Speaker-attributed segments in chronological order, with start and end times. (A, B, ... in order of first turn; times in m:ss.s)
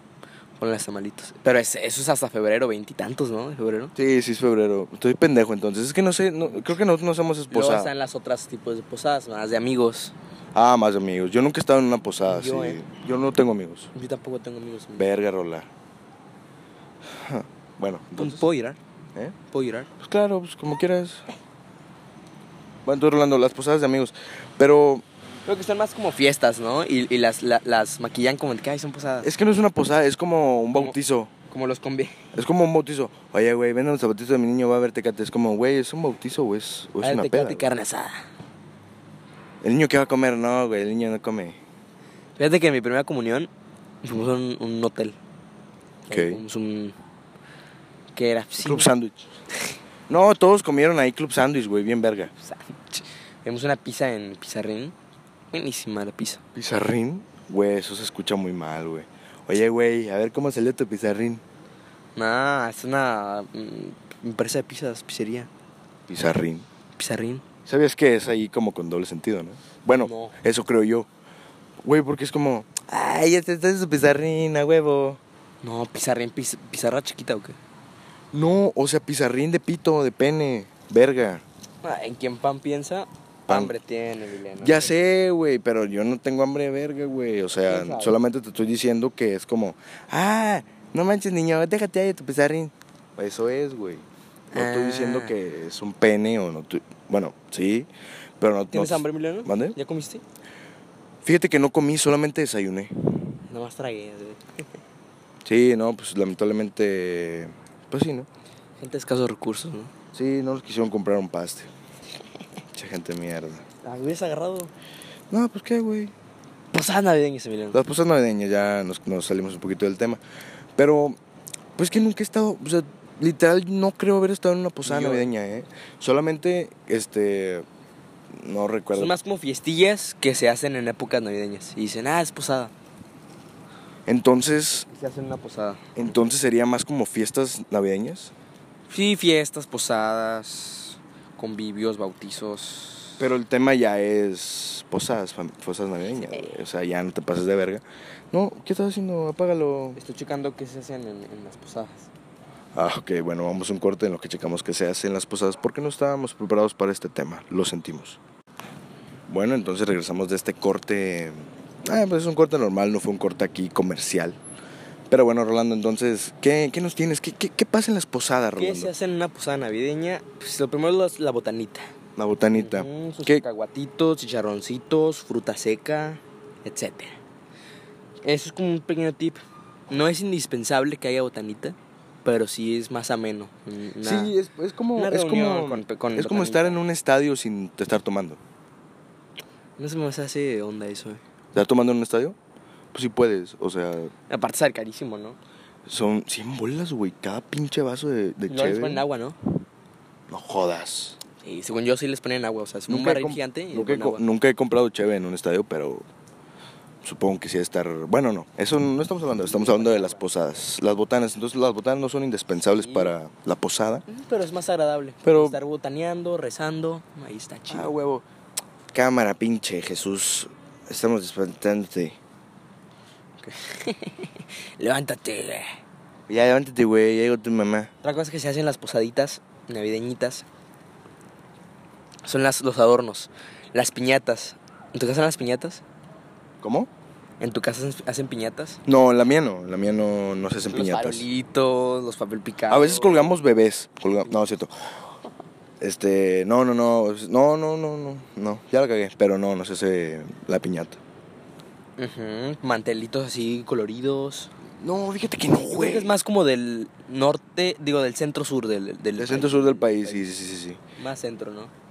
0:00.6-0:03.9 A
0:04.0-0:07.9 B
0:07.5-0:10.1 A
0:10.5-0:13.9 B
0:12.3-0:12.8 A
0:13.9-0:15.1 A
0:15.0-0:15.7 B
0:17.2-0:18.5 B
0:18.2-0:18.8 A
0:19.5-0:19.9 A
0:20.0-0:21.2 B
0:22.8-0:25.0 B
0:25.5-0:29.3 A
0:29.2-0:31.3 B
0:31.5-0:32.3 A
0:32.3-0:37.7 B
0:37.0-0:38.2 A
0:39.6-0:41.6 B
0:42.4-0:43.5 A
0:44.0-0:45.2 A
0:46.1-0:47.0 A
0:46.1-0:46.4 B
0:48.2-0:48.9 A
0:48.6-0:49.3 B
0:50.1-0:52.3 B
0:52.4-0:55.0 A
0:55.5-0:56.4 A
0:56.6-1:01.4 B
1:02.2-1:05.5 A
1:06.1-1:06.7 B
1:07.0-1:07.4 A
1:07.7-1:11.1 B
1:09.9-1:10.4 A
1:11.8-1:15.2 B
1:15.6-1:17.6 A
1:18.3-1:21.4 B
1:21.8-1:25.1 A
1:23.5-1:23.7 B
1:24.6-1:37.9 B
1:27.7-1:28.2 A
1:34.5-1:35.4 A
1:38.4-1:39.8 B
1:38.7-1:40.2 A
1:41.2-1:43.4 B
1:43.5-1:44.6 A
1:45.4-1:48.3 B
1:48.8-1:49.9 A
1:50.1-1:51.7 B
1:52.7-1:53.6 B
1:53.8-1:54.7 A
1:55.3-1:56.1 B
1:56.7-1:57.8 A
1:57.7-2:00.2 B
2:00.8-2:01.2 B
2:01.8-2:07.7 B
2:04.8-2:05.3 A
2:08.3-2:09.1 B
2:08.9-2:12.7 A
2:14.1-2:14.9 B
2:14.9-2:16.1 A
2:16.0-2:18.3 B
2:18.9-2:23.2 A
2:23.2-2:30.0 B
2:30.0-2:32.1 A
2:32.7-2:38.2 B
2:39.3-2:44.4 B
2:45.1-2:48.9 B
2:48.6-2:51.9 A
2:52.2-2:53.4 B
2:52.5-2:57.2 A
2:58.2-3:04.3 A
3:04.0-3:08.4 B
3:05.0-3:06.8 A
3:09.8-3:11.2 A
3:11.5-3:12.4 B
3:12.9-3:14.1 B
3:14.3-3:15.4 A
3:15.9-3:19.0 B
3:18.5-3:19.4 A
3:20.3-3:21.2 B
3:21.4-3:24.2 A
3:22.9-3:26.0 B
3:27.0-3:34.0 B
3:29.5-3:30.2 A
3:32.8-3:33.1 A
3:34.1-3:37.9 A
3:35.2-3:35.6 B
3:37.7-3:38.2 B
3:38.9-3:42.2 B
3:43.4-3:45.7 A
3:46.3-3:47.9 B
3:48.0-3:50.4 A
3:52.2-3:55.8 A
3:56.6-3:56.9 B
3:57.4-3:58.8 A
3:58.9-4:01.3 B
4:00.7-4:03.4 A
4:02.7-4:04.7 B
4:05.8-4:11.0 B
4:12.0-4:14.5 A
4:14.8-4:16.2 B
4:15.7-4:20.2 A
4:19.2-4:20.8 B
4:21.0-4:21.7 A